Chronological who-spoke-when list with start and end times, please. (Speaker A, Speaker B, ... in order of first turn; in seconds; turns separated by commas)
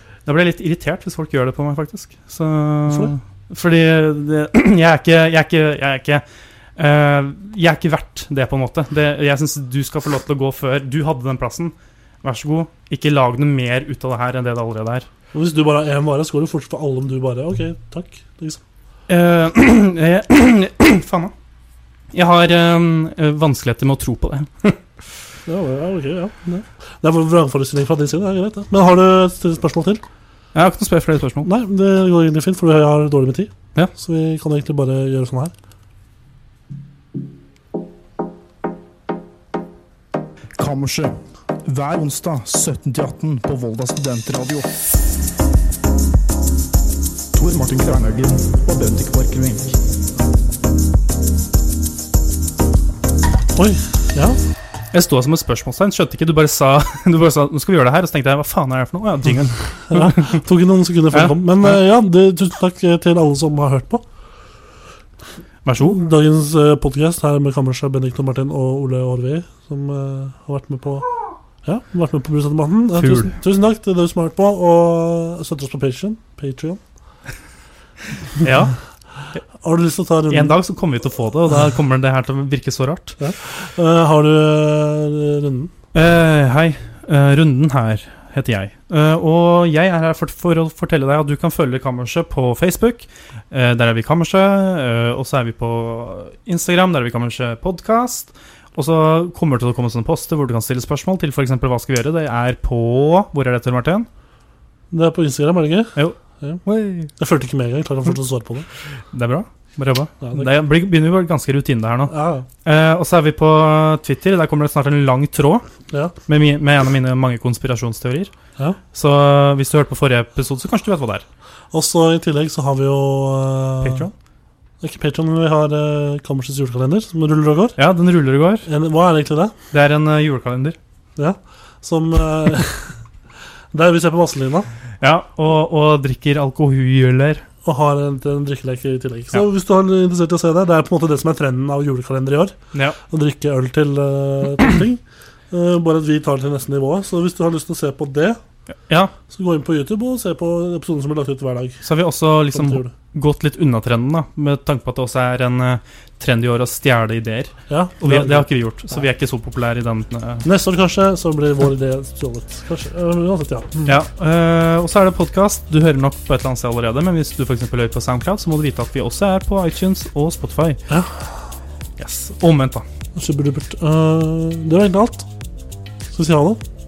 Speaker A: 0.2-6.2, Speaker B: 2.9-3.1, Speaker A: 6.8-15.1, Speaker B: 15.3-18.6, Speaker A: 19.1-21.3, Speaker A: 22.1-24.8, Speaker B: 25.4-30.0, Speaker A: 30.5-31.5, Speaker B: 31.4-35.5, Speaker C: 40.6-44.7, Speaker C: 47.3-49.8, Speaker B: 53.5-54.4, Speaker A: 54.9-60.4, Speaker B: 59.9-64.0, Speaker A: 61.1-61.8, Speaker A: 65.6-66.0, Speaker B: 65.8-71.0, Speaker B: 71.6-76.8, Speaker A: 73.0-73.3, Speaker A: 78.4-78.7, Speaker B: 79.6-80.6, Speaker A: 80.3-83.2, Speaker B: 83.2-85.7, Speaker A: 85.9-104.1, Speaker B: 104.9-106.6, Speaker A: 106.0-107.1, Speaker B: 107.2-108.7, Speaker A: 109.1-112.1, Speaker B: 110.2-110.5, Speaker B: 112.1-112.5, Speaker A: 112.6-115.6, Speaker A: 116.3-118.3, Speaker A: 118.9-121.2, Speaker B: 121.7-124.1, Speaker A: 123.8-124.1, Speaker B: 124.8-127.8, Speaker A: 127.8-128.7, Speaker B: 128.6-129.5, Speaker A: 129.7-130.8, Speaker B: 131.2-132.9, Speaker B: 133.7-134.7, Speaker A: 135.0-137.4, Speaker B: 137.6-142.6, Speaker B: 143.1-148.4, Speaker A: 148.9-149.1, Speaker B: 149.3-151.8, Speaker A: 151.8-160.4, Speaker B: 152.5-152.9, Speaker B: 157.7-159.0, Speaker B: 160.4-163.9, Speaker A: 163.8-170.8, Speaker B: 170.9-171.2, Speaker A: 172.0-172.8, Speaker B: 173.1-175.3, Speaker B: 176.1-176.6